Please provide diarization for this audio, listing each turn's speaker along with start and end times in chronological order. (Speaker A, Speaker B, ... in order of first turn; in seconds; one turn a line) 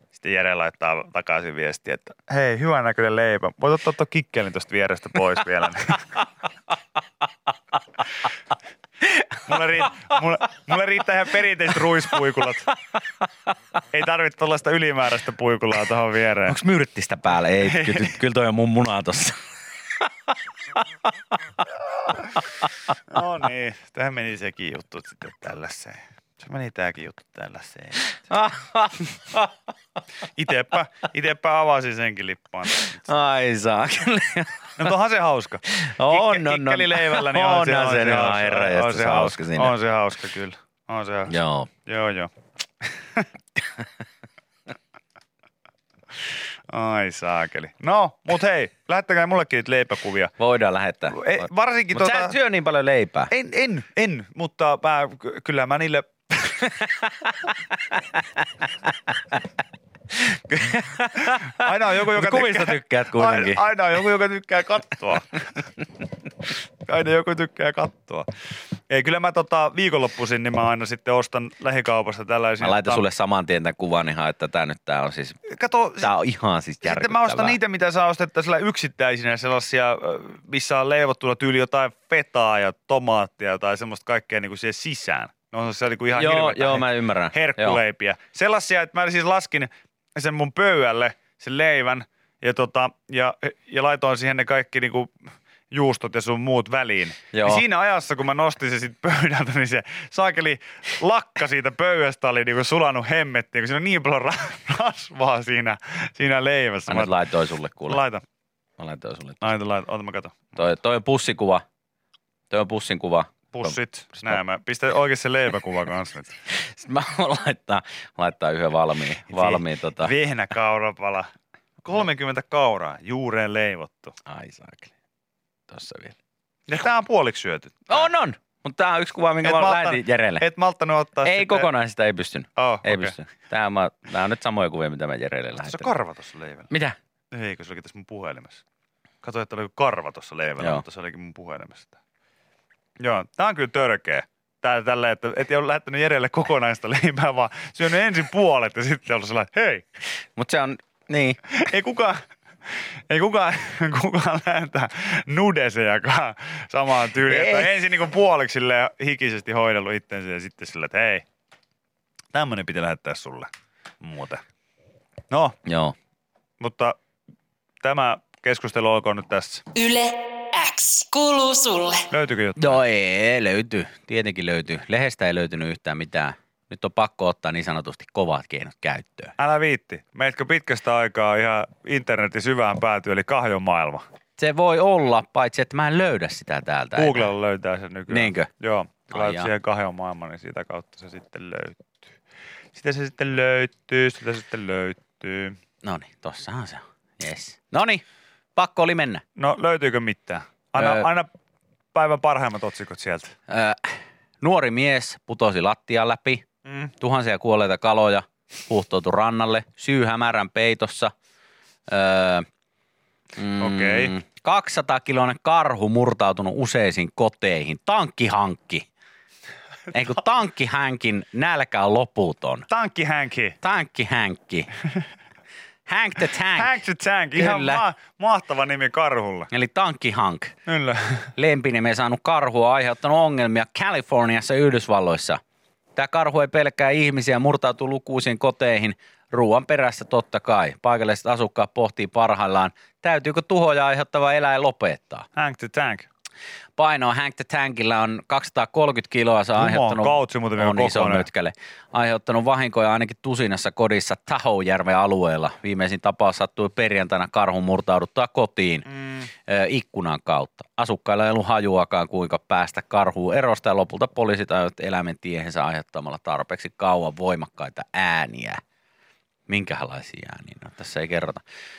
Speaker A: 0.1-6.2
Speaker A: 9.4-12.7
Speaker A: 13.9-16.6
Speaker B: 16.5-19.4
Speaker A: 17.6-18.1
Speaker A: 23.1-28.0
Speaker B: 28.3-29.5
Speaker A: 30.4-33.1
Speaker B: 32.8-34.9
Speaker A: 34.8-41.3
Speaker B: 35.7-39.7
Speaker B: 41.3-41.7
Speaker A: 41.9-43.3
Speaker A: 46.7-50.3
Speaker B: 50.4-51.4
Speaker A: 51.1-52.4
Speaker B: 51.9-53.3
Speaker A: 53.3-56.7
Speaker B: 56.9-57.3
Speaker B: 60.1-63.6
Speaker A: 61.3-65.6
Speaker A: 66.8-68.3
Speaker A: 68.9-73.0
Speaker B: 72.6-75.4
Speaker A: 75.4-76.1
Speaker B: 76.0-77.6
Speaker A: 76.8-95.1
Speaker B: 86.1-87.8
Speaker A: 95.7-107.2
Speaker B: 97.3-97.6
Speaker B: 106.9-108.0
Speaker A: 107.9-108.2
Speaker B: 108.8-109.5
Speaker A: 109.4-110.4
Speaker B: 110.5-111.6
Speaker B: 112.5-114.4
Speaker A: 113.5-116.3
Speaker B: 116.5-120.1
Speaker A: 119.3-121.3
Speaker A: 121.8-124.1
Speaker B: 124.2-124.9
Speaker B: 125.7-126.1
Speaker A: 126.7-128.1
Speaker B: 127.9-130.4
Speaker A: 129.4-131.7
Speaker B: 131.2-135.9
Speaker A: 132.6-133.2
Speaker A: 135.6-136.7
Speaker B: 136.7-136.9
Speaker A: 137.3-138.6
Speaker A: 139.2-142.0
Speaker B: 140.6-140.8
Speaker A: 143.0-149.8
Speaker B: 150.3-151.4
Speaker A: 151.5-152.2
Speaker A: 153.1-161.2
Speaker B: 157.3-157.7
Speaker A: 162.3-164.4
Speaker A: 165.3-165.6
Speaker B: 165.6-165.9
Speaker A: 166.6-166.9
Speaker A: 167.8-169.6
Speaker C: 169.7-172.1
Speaker A: 172.1-172.8
Speaker B: 172.6-179.3
Speaker A: 179.4-184.0
Speaker B: 184.4-187.3
Speaker A: 186.9-192.1
Speaker B: 188.1-188.5
Speaker B: 189.1-189.5
Speaker A: 192.7-195.6
Speaker B: 195.8-198.0
Speaker B: 198.6-199.2
Speaker A: 199.3-201.3
Speaker B: 200.8-201.1
Speaker A: 201.9-203.3
Speaker B: 203.5-206.4
Speaker A: 206.6-206.9
Speaker B: 207.0-211.1
Speaker B: 211.9-212.4
Speaker B: 213.4-218.9
Speaker A: 213.6-214.1
Speaker B: 219.9-222.7
Speaker A: 222.7-223.6
Speaker B: 223.6-224.7
Speaker B: 225.9-226.8
Speaker A: 226.5-229.5
Speaker B: 227.3-227.8
Speaker B: 229.5-230.5
Speaker A: 230.7-231.3
Speaker B: 231.3-235.4
Speaker B: 235.9-245.3
Speaker A: 245.3-246.1
Speaker B: 246.8-258.9
Speaker A: 249.6-251.3
Speaker A: 258.9-259.3
Speaker B: 259.4-268.6
Speaker B: 269.5-271.4